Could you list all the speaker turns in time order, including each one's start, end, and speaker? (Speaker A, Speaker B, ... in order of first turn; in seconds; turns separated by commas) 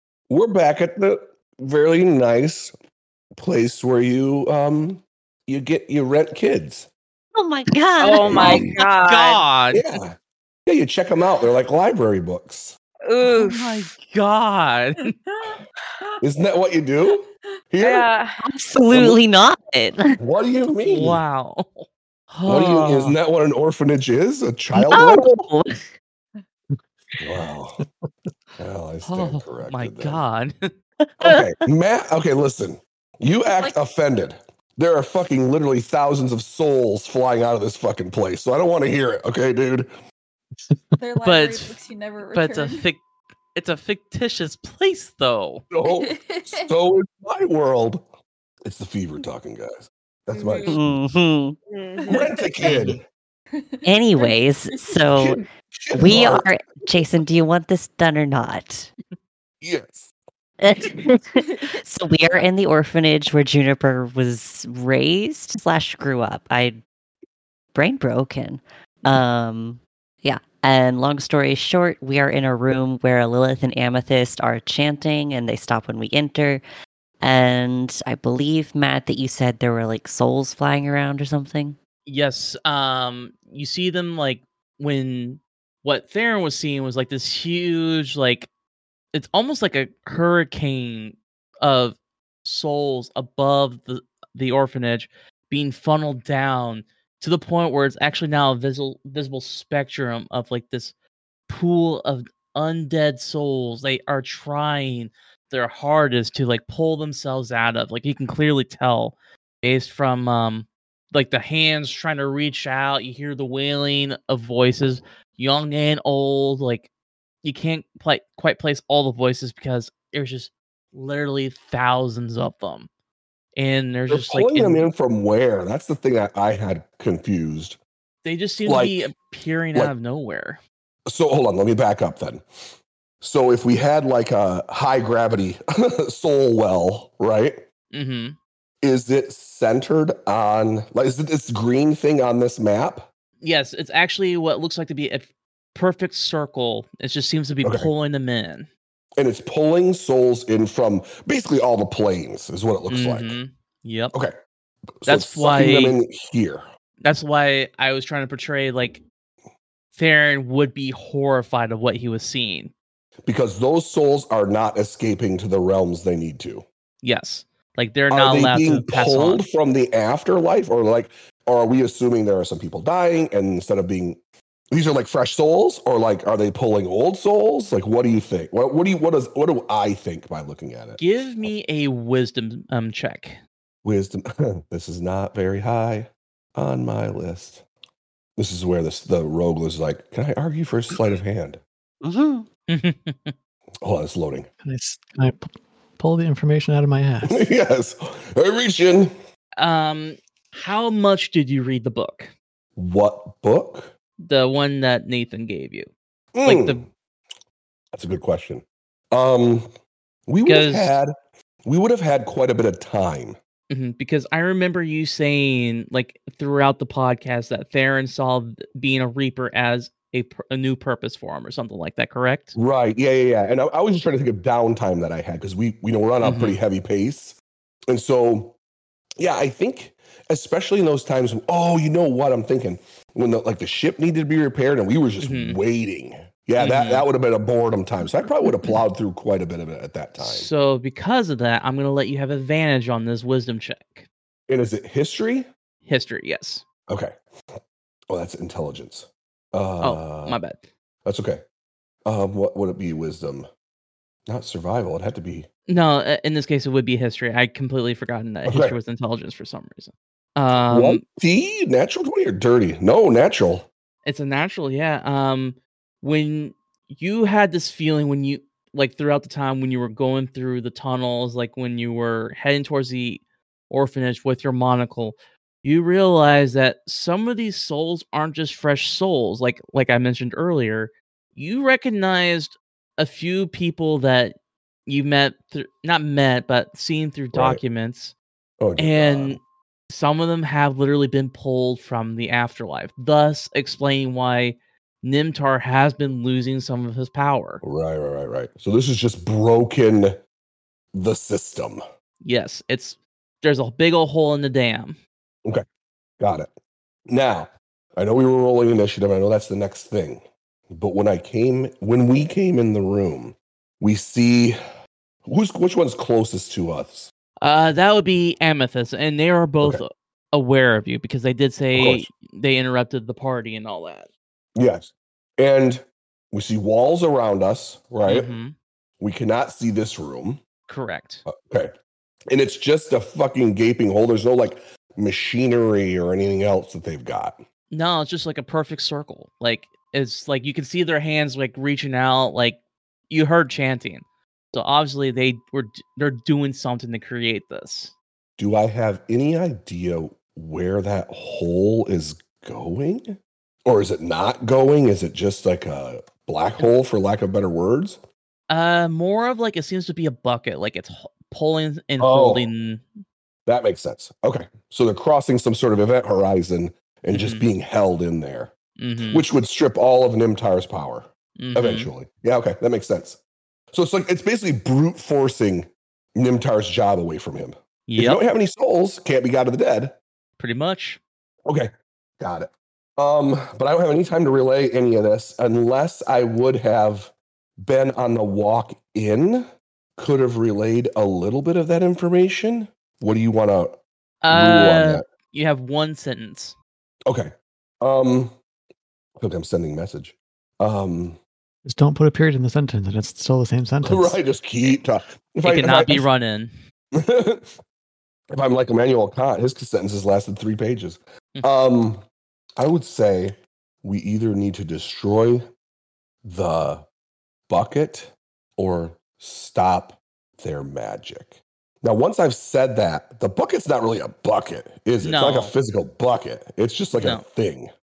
Speaker A: 0.3-2.7, Speaker A: 3.4-6.9, Speaker B: 7.3-8.7, Speaker C: 8.0-9.4, Speaker A: 8.2-8.7, Speaker D: 9.0-10.0, Speaker A: 9.7-12.8, Speaker C: 13.1-13.9, Speaker D: 13.2-15.1, Speaker A: 16.2-18.1, Speaker C: 17.8-18.4, Speaker B: 18.4-20.2, Speaker A: 18.9-19.2, Speaker A: 20.2-21.2, Speaker D: 20.8-23.2, Speaker A: 22.5-25.4, Speaker B: 24.7-25.9, Speaker A: 27.2-27.8, Speaker A: 28.6-30.2, Speaker D: 29.0-30.7, Speaker B: 31.1-31.5, Speaker A: 31.2-39.9, Speaker E: 41.0-42.9, Speaker D: 41.2-43.0, Speaker D: 43.5-45.6, Speaker A: 45.7-48.1, Speaker E: 45.8-46.7, Speaker A: 48.6-50.7, Speaker E: 50.3-50.8, Speaker B: 50.7-51.6, Speaker C: 51.7-52.2, Speaker E: 52.0-52.8, Speaker A: 52.1-53.0, Speaker E: 53.6-54.3, Speaker B: 53.9-55.4, Speaker A: 55.2-56.5, Speaker B: 55.9-58.9, Speaker A: 59.6-60.1, Speaker B: 60.6-66.8, Speaker B: 67.7-76.6, Speaker B: 77.2-81.8, Speaker D: 82.1-88.5, Speaker D: 89.1-100.9, Speaker D: 101.5-116.9, Speaker D: 117.4-122.9, Speaker D: 123.6-124.9, Speaker A: 124.1-127.8, Speaker D: 128.2-130.6, Speaker A: 128.7-129.0, Speaker A: 131.1-132.4, Speaker A: 133.2-137.6, Speaker D: 137.9-138.4, Speaker A: 138.8-143.1, Speaker D: 143.4-148.7, Speaker A: 147.6-147.9, Speaker A: 149.2-153.4, Speaker D: 152.9-154.2, Speaker A: 155.0-156.7, Speaker D: 155.1-156.0, Speaker D: 157.0-159.0, Speaker D: 159.9-162.7, Speaker A: 163.2-166.7, Speaker D: 167.0-169.4, Speaker A: 168.1-174.2, Speaker A: 174.7-181.5, Speaker D: 181.0-183.4, Speaker A: 183.8-187.6, Speaker A: 188.4-191.6, Speaker B: 192.0-192.5, Speaker D: 192.7-193.3, Speaker A: 193.8-194.5, Speaker F: 194.6-197.4, Speaker A: 197.3-199.1, Speaker D: 199.6-202.3, Speaker A: 202.8-203.9, Speaker D: 204.2-205.9, Speaker A: 206.3-206.9, Speaker D: 206.4-206.8, Speaker A: 207.9-209.7, Speaker A: 210.3-211.1, Speaker D: 210.4-211.0, Speaker A: 211.7-213.4, Speaker D: 213.7-222.6, Speaker A: 222.6-227.4, Speaker D: 226.2-226.6, Speaker A: 227.9-228.6, Speaker A: 229.2-240.5, Speaker D: 235.2-235.6, Speaker D: 236.6-237.1, Speaker D: 240.2-244.1, Speaker A: 244.5-245.5, Speaker D: 245.8-246.7, Speaker A: 246.9-247.1, Speaker A: 248.1-250.4, Speaker D: 249.8-250.6, Speaker A: 251.1-251.4, Speaker A: 252.1-253.5, Speaker A: 254.3-255.5, Speaker D: 255.7-261.0, Speaker A: 258.5-258.8, Speaker A: 260.5-263.7, Speaker D: 264.1-284.4, Speaker D: 284.9-288.1, Speaker A: 287.3-287.6, Speaker A: 288.6-289.4, Speaker D: 288.8-297.6, Speaker A: 297.6-300.2, Speaker A: 300.9-301.8, Speaker D: 302.2-305.0, Speaker A: 306.2-306.5, Speaker A: 307.1-314.6, Speaker A: 315.3-317.1, Speaker D: 317.4-324.1, Speaker A: 321.8-322.1, Speaker A: 324.6-328.3, Speaker D: 328.1-328.6, Speaker A: 329.0-330.4, Speaker D: 330.7-331.2, Speaker A: 331.3-331.7, Speaker A: 332.3-337.4, Speaker D: 337.7-347.9, Speaker A: 348.4-358.0, Speaker D: 358.5-362.9, Speaker A: 362.0-362.5, Speaker A: 363.5-368.5, Speaker D: 367.1-367.5, Speaker D: 368.8-369.2, Speaker A: 369.1-373.2, Speaker D: 371.4-371.9, Speaker A: 373.7-380.0, Speaker D: 377.9-378.2, Speaker D: 380.4-381.0, Speaker A: 381.5-395.1, Speaker D: 394.2-396.6, Speaker A: 397.1-398.4, Speaker A: 399.2-401.2, Speaker F: 401.6-404.2, Speaker A: 403.8-406.1, Speaker D: 405.4-406.5, Speaker A: 406.9-407.6, Speaker A: 408.3-412.1, Speaker A: 412.6-415.4, Speaker A: 416.2-416.9, Speaker A: 417.5-427.7, Speaker D: 425.0-425.6, Speaker D: 427.0-427.2